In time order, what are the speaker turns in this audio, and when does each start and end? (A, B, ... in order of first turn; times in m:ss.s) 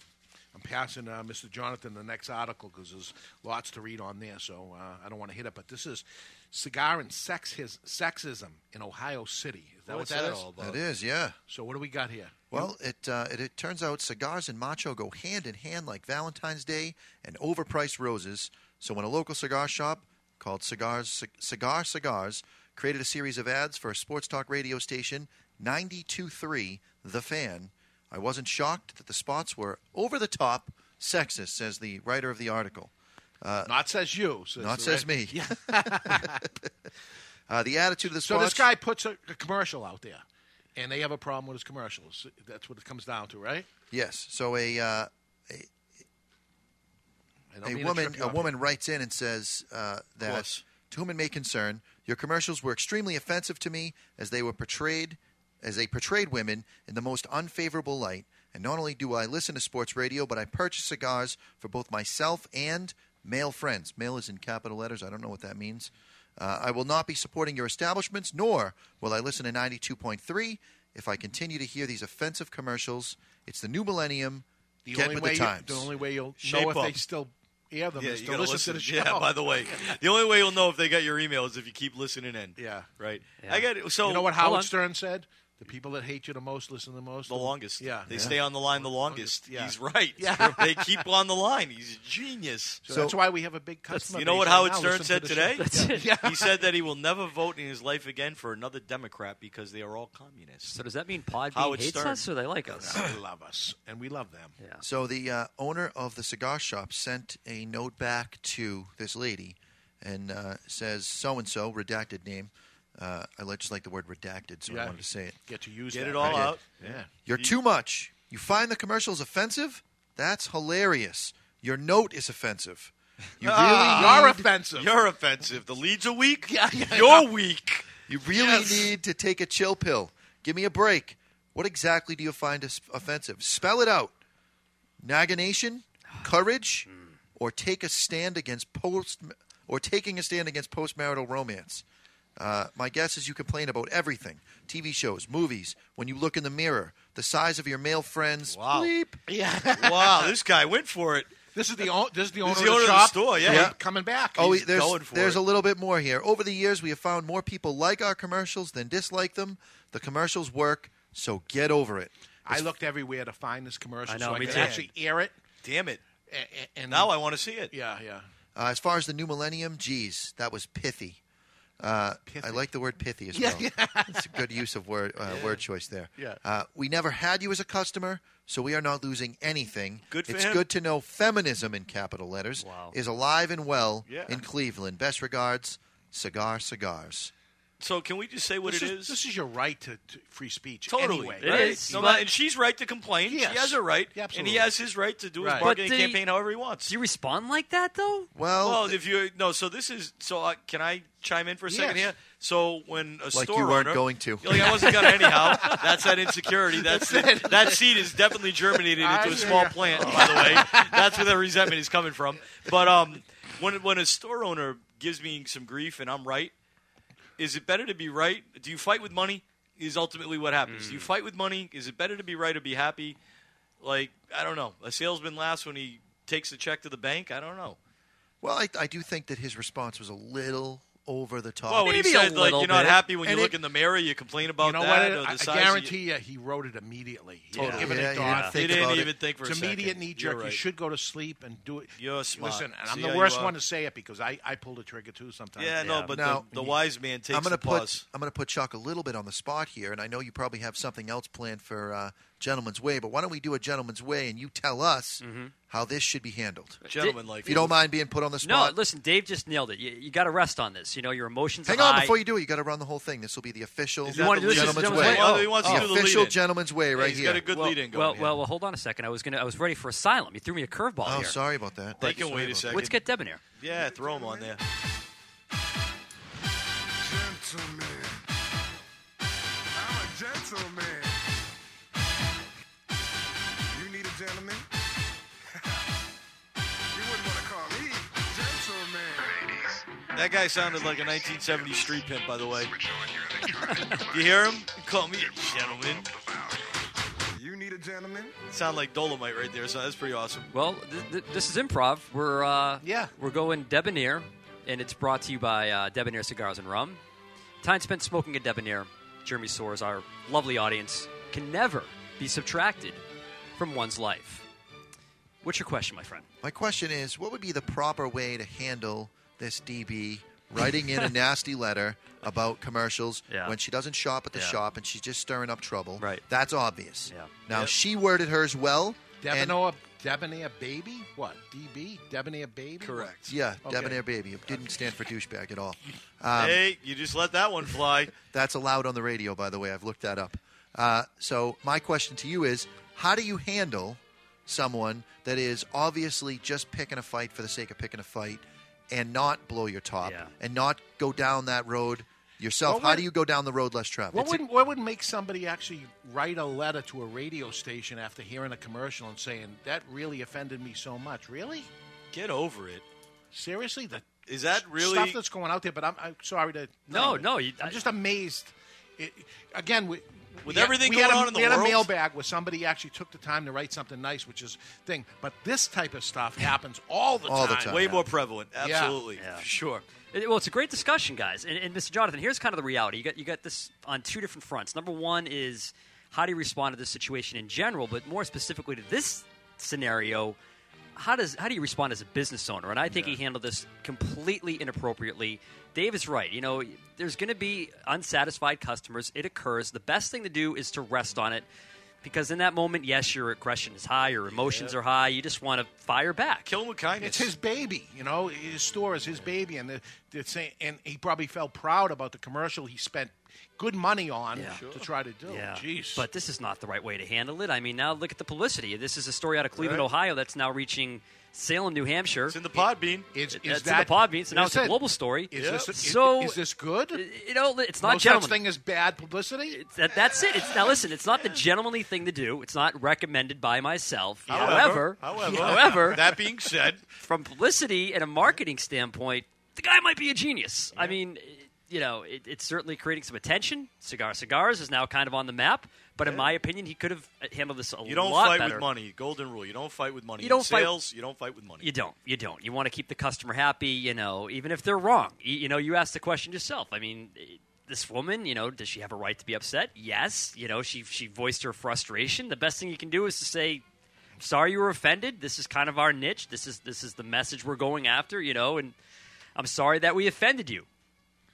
0:00.5-0:10.5 A
0:09.9-0:10.8 B
0:10.6-0:11.4 C
0:11.5-0:12.7 A
0:12.5-0:33.7 C
0:33.6-0:36.4 A
0:34.6-0:36.4 C
0:37.5-0:38.7 C
0:38.2-0:40.2 A
0:40.8-0:43.7 A
0:43.9-0:45.7 C
0:47.5-0:48.5 A
0:47.6-1:15.9 C
0:50.2-0:50.6 B
1:14.8-1:19.9 A
1:16.4-1:17.0 B
1:18.0-1:24.3 B
1:22.6-1:22.9 A
1:23.4-1:23.7 D
1:24.0-1:31.0 A
1:24.3-1:24.7 D
1:27.3-1:32.8 B
1:28.1-1:28.4 C
1:32.8-1:36.6 A
1:32.8-1:33.2 C
1:34.1-1:35.7 B
1:35.6-1:36.1 D
1:36.2-1:40.7 B
1:40.6-1:43.0 D
1:41.5-1:42.2 B
1:42.8-1:44.5 A
1:44.8-1:55.4 C
1:54.7-1:57.1 A
1:55.9-1:57.5 B
1:56.2-1:56.6 C
1:57.2-2:04.4 C
2:03.4-2:07.8 B
2:03.9-2:04.9 A
2:06.5-2:07.3 A
2:08.1-2:14.2 C
2:08.3-2:08.9 A
2:15.0-2:21.8 C
2:16.9-2:17.1 D
2:22.4-2:29.2 C
2:28.5-2:28.9 B
2:29.3-2:30.3 A
2:29.8-2:31.3 B
2:31.5-2:34.6 A
2:32.4-2:33.7 B
2:33.4-2:33.7 C
2:34.4-2:42.7 C
2:34.5-2:35.4 B
2:42.4-2:45.3 A
2:44.0-2:44.8 D
2:44.4-2:44.8 B
2:45.6-2:46.0 B
2:46.3-2:47.1 A
2:46.9-2:47.7 B
2:47.7-2:48.3 A
2:48.5-2:51.2 C
2:51.8-3:07.3 C
2:52.3-2:52.6 A
2:53.3-2:54.2 A
2:55.3-2:55.6 B
3:00.1-3:00.6 B
3:02.6-3:02.9 D
3:04.1-3:04.4 B
3:07.8-3:09.2 B
3:08.6-3:12.1 A
3:10.9-3:16.9 B
3:11.4-3:12.3 D
3:13.3-3:14.7 A
3:15.4-3:15.6 A
3:15.6-3:16.2 D
3:16.9-3:18.3 D
3:18.3-3:19.0 C
3:18.6-3:36.5 B
3:21.7-3:22.1 A
3:23.3-3:24.7 C
3:24.5-3:26.1 A
3:26.7-3:28.1 A
3:28.7-3:31.3 A
3:37.4-3:43.2 B
3:40.7-3:41.1 D
3:43.8-3:47.8 B
3:48.4-3:52.0 C
3:51.7-3:56.0 B
3:51.8-3:53.0 D
3:53.2-3:53.5 A
3:54.6-4:05.8 A
3:57.5-3:58.5 D
3:57.7-3:59.1 C
3:58.5-4:00.6 B
4:02.0-4:03.5 B
4:05.6-4:08.0 B
4:05.8-4:06.1 D
4:06.1-4:06.5 C
4:06.5-4:06.8 A
4:07.3-4:16.8 C
4:15.2-4:15.5 D
4:16.8-4:17.6 D
4:16.8-4:17.8 B
4:17.4-4:18.8 C
4:18.4-4:22.2 D
4:21.6-4:27.5 C
4:24.1-4:25.8 D
4:24.1-4:26.4 B
4:26.9-4:28.4 B
4:27.5-4:31.4 D
4:31.0-4:32.8 C
4:32.0-4:33.0 B
4:32.7-4:33.4 D
4:33.6-4:34.6 B
4:33.7-4:34.5 E
4:37.0-4:38.2 E
4:39.8-4:41.2 E
4:43.7-4:44.6 E
4:46.9-4:49.8 E
4:50.1-4:52.7 B
4:52.6-4:54.2 E
4:53.5-4:54.0 D
4:54.0-4:56.1 B
4:55.6-4:56.6 E
4:57.3-4:58.3 E
4:58.5-5:00.5 B
5:00.5-5:07.0 D
5:02.8-5:03.1 A
5:07.6-5:13.0 D
5:13.6-5:14.4 D
5:15.4-5:16.3 D
5:16.4-5:29.6 C
5:20.6-5:21.1 D
5:23.3-5:23.6 D
5:24.3-5:24.6 D
5:29.2-5:34.0 A
5:32.8-5:33.3 B
5:33.3-5:36.6 C
5:36.4-5:38.1 B
5:38.1-5:54.4 C
5:50.0-5:50.3 D
5:52.6-5:53.0 A
5:54.1-6:01.7 A
6:02.1-6:02.8 B
6:03.3-6:18.0 A
6:04.2-6:05.2 B
6:06.9-6:07.8 D
6:10.4-6:11.9 B
6:17.2-6:18.0 C
6:17.7-6:19.8 B
6:18.6-6:19.0 A
6:19.2-6:19.5 D
6:20.0-6:30.4 D
6:31.0-6:41.4 D
6:32.9-6:33.2 B
6:42.0-6:46.5 D
6:44.3-6:44.8 B
6:46.4-6:47.3 B
6:47.0-6:56.0 A
6:54.3-6:54.6 D
6:54.4-6:54.9 B
6:55.3-7:02.4 D
6:59.6-6:59.9 B
7:02.3-7:03.1 B
7:03.1-7:04.8 A
7:03.3-7:06.4 D
7:05.3-7:07.0 A
7:05.3-7:05.7 B
7:06.9-7:08.4 D
7:07.8-7:09.6 A
7:09.5-7:16.0 D
7:14.3-7:16.8 B
7:15.1-7:16.1 A
7:17.0-7:28.6 D
7:26.0-7:26.3 B
7:27.8-7:31.7 B
7:30.2-7:30.7 D
7:31.6-7:43.6 D
7:44.2-7:48.8 D
7:49.4-7:50.7 D